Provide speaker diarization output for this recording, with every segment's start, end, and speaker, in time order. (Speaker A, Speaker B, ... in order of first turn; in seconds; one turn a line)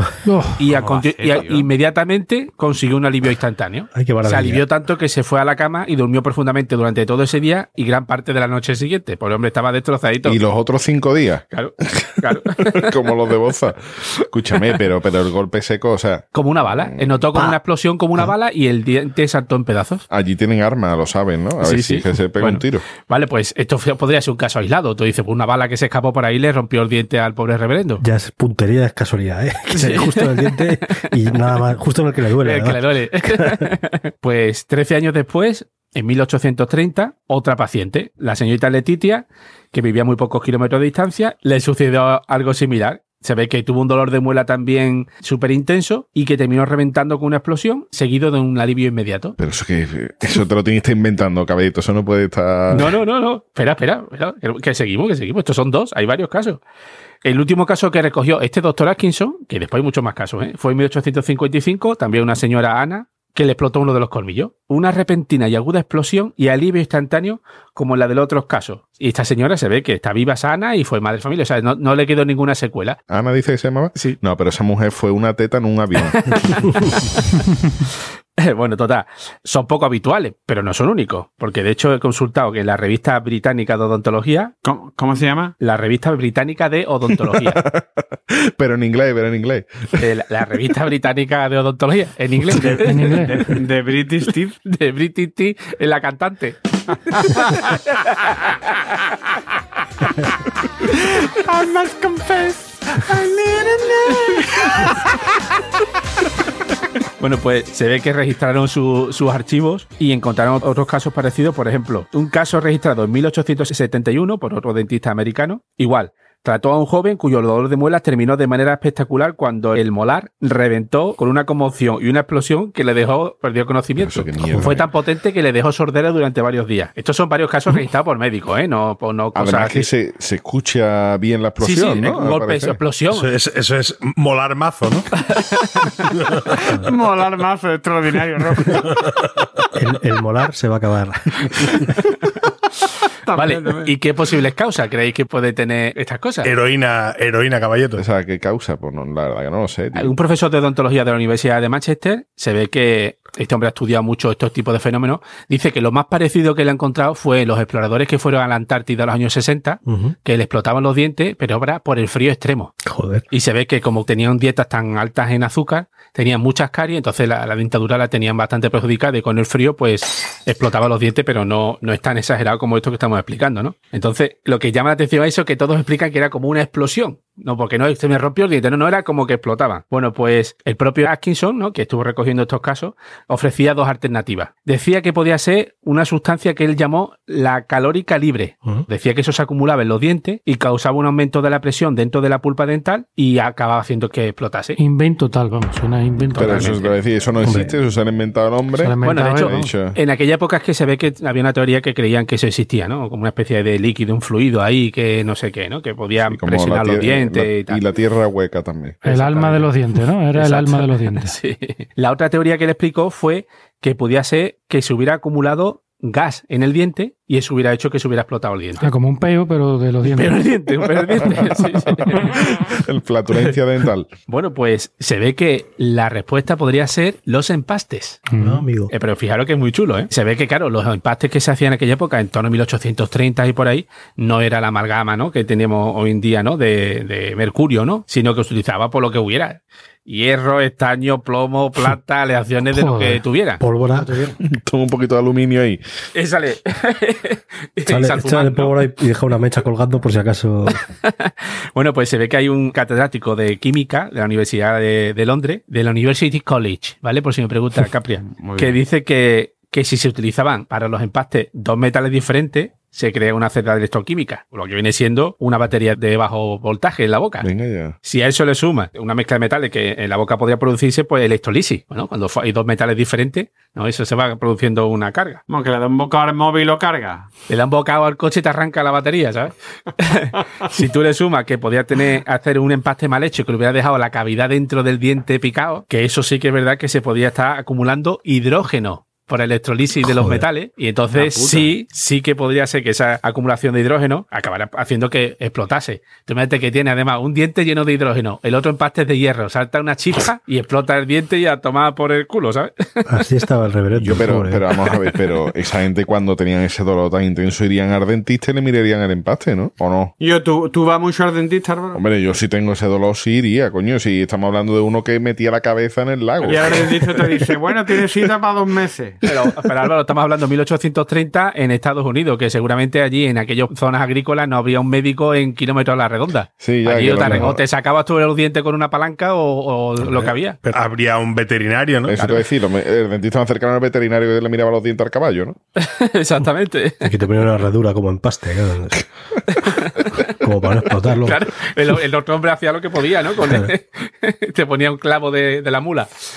Speaker A: 0.2-0.6
Speaker B: 0.6-10.4
Speaker C: 0.7-1.7
Speaker D: 3.9-4.6
Speaker E: 10.2-11.5
Speaker B: 11.5-12.9
Speaker E: 12.8-17.2
Speaker B: 16.3-20.1
Speaker E: 20.1-22.9
Speaker B: 21.6-28.0
Speaker D: 28.0-33.7
Speaker B: 29.7-31.1
Speaker B: 32.4-49.4
Speaker E: 49.4-53.0
Speaker B: 52.7-56.6
Speaker B: 57.2-73.0
Speaker E: 73.1-76.4
Speaker B: 76.1-77.0
Speaker B: 78.4-84.5
Speaker C: 84.6-85.5
Speaker B: 85.6-87.6
Speaker E: 87.3-90.0
Speaker B: 90.0-93.5
Speaker A: 92.8-93.4
Speaker C: 93.3-94.6
Speaker B: 94.7-98.9
Speaker C: 100.9-104.9
Speaker B: 107.2-129.9
Speaker E: 124.0-124.9
Speaker E: 129.3-132.8
Speaker B: 131.6-133.3
Speaker F: 133.1-135.1
Speaker B: 135.2-136.0
Speaker C: 136.6-138.9
Speaker D: 139.8-141.5
Speaker C: 143.3-143.9
Speaker B: 143.3-146.5
Speaker F: 146.4-148.0
Speaker E: 148.0-150.1
Speaker B: 149.9-162.8
Speaker D: 159.9-160.2
Speaker D: 162.8-163.2
Speaker B: 163.3-194.8
Speaker A: 194.8-196.8
Speaker B: 196.3-197.0
Speaker E: 196.4-200.0
Speaker D: 197.4-197.8
Speaker A: 198.8-199.7
Speaker B: 199.0-207.8
Speaker E: 206.3-209.4
Speaker A: 209.1-211.4
Speaker B: 209.1-209.7
Speaker B: 210.3-218.9
Speaker A: 218.8-220.4
Speaker B: 220.0-222.4
Speaker E: 222.1-224.1
Speaker B: 224.3-228.2
Speaker A: 228.3-228.7
Speaker D: 228.4-228.9
Speaker B: 228.9-243.6
Speaker A: 242.7-243.2
Speaker D: 243.6-244.1
Speaker E: 244.4-245.8
Speaker B: 246.2-248.8
Speaker D: 247.9-250.8
Speaker B: 251.0-267.5
Speaker C: 258.2-258.8
Speaker E: 267.4-267.9
Speaker B: 268.0-275.4
Speaker C: 275.5-277.3
Speaker B: 277.5-303.0
Speaker D: 290.0-290.5
Speaker C: 291.1-291.7
Speaker D: 303.1-304.6
Speaker E: 304.0-310.1
Speaker C: 310.2-312.0
Speaker E: 311.9-317.3
Speaker C: 316.4-319.2
Speaker B: 319.2-330.6
Speaker E: 326.6-327.6
Speaker D: 327.2-327.5
Speaker F: 330.6-332.2
Speaker E: 332.1-335.6
Speaker B: 335.8-337.1
Speaker D: 337.0-339.0
Speaker B: 339.5-340.1
Speaker D: 340.3-341.4
Speaker B: 341.2-346.1
Speaker D: 343.4-343.7